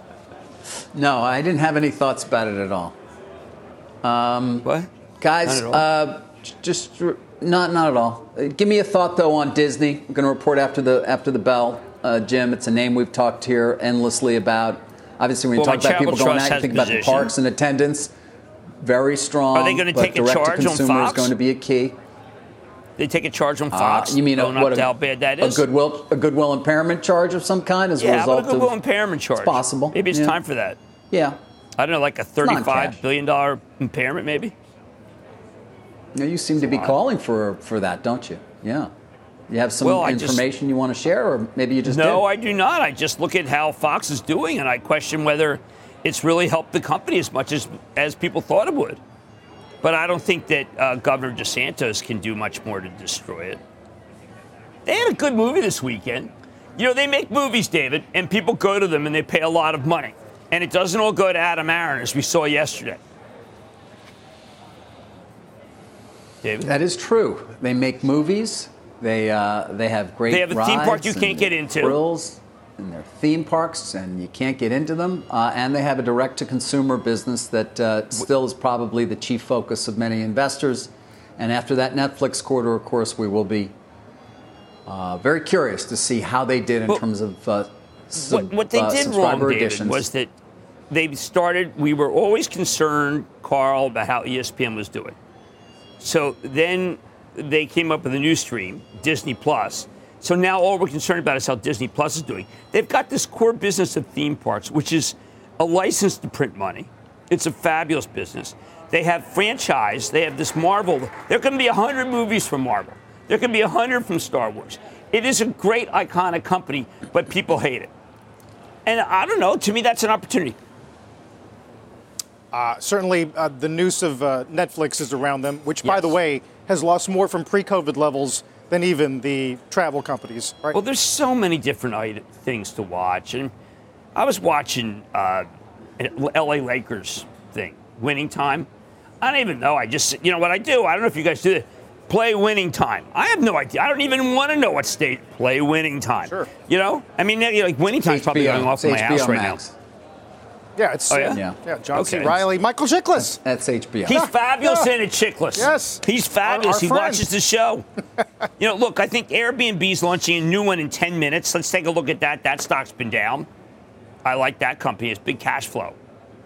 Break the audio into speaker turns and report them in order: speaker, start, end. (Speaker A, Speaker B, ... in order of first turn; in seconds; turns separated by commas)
Speaker A: 0.9-3.0, Speaker A: 4.0-4.7, Speaker A: 5.2-18.1, Speaker B: 5.5-5.8, Speaker B: 15.6-17.3, Speaker A: 18.8-22.0, Speaker B: 19.6-21.3, Speaker B: 23.0-25.6, Speaker A: 23.7-28.8, Speaker B: 28.0-30.8, Speaker A: 29.4-30.4, Speaker A: 31.1-31.4, Speaker B: 31.8-34.5, Speaker A: 32.4-33.0, Speaker A: 36.1-38.9, Speaker B: 36.6-36.9, Speaker A: 39.5-42.2, Speaker B: 39.8-40.4, Speaker B: 41.8-49.0, Speaker B: 49.8-53.6, Speaker B: 54.9-63.0, Speaker B: 66.4-66.7, Speaker A: 66.6-83.7, Speaker B: 70.3-72.0, Speaker A: 84.9-90.1, Speaker B: 88.2-90.3, Speaker B: 90.9-95.2, Speaker B: 96.0-117.9, Speaker B: 118.9-120.6, Speaker C: 122.5-130.8, Speaker B: 125.8-126.1, Speaker B: 130.7-133.5, Speaker B: 134.2-135.5, Speaker B: 136.0-138.7, Speaker B: 139.2-149.6, Speaker A: 147.9-149.8, Speaker C: 150.8-153.4, Speaker B: 151.1-151.4, Speaker A: 151.3-151.6, Speaker B: 151.9-152.5, Speaker A: 153.2-154.2, Speaker C: 154.1-154.9, Speaker B: 154.1-157.8, Speaker C: 155.6-157.3, Speaker B: 158.6-163.5, Speaker B: 164.2-166.0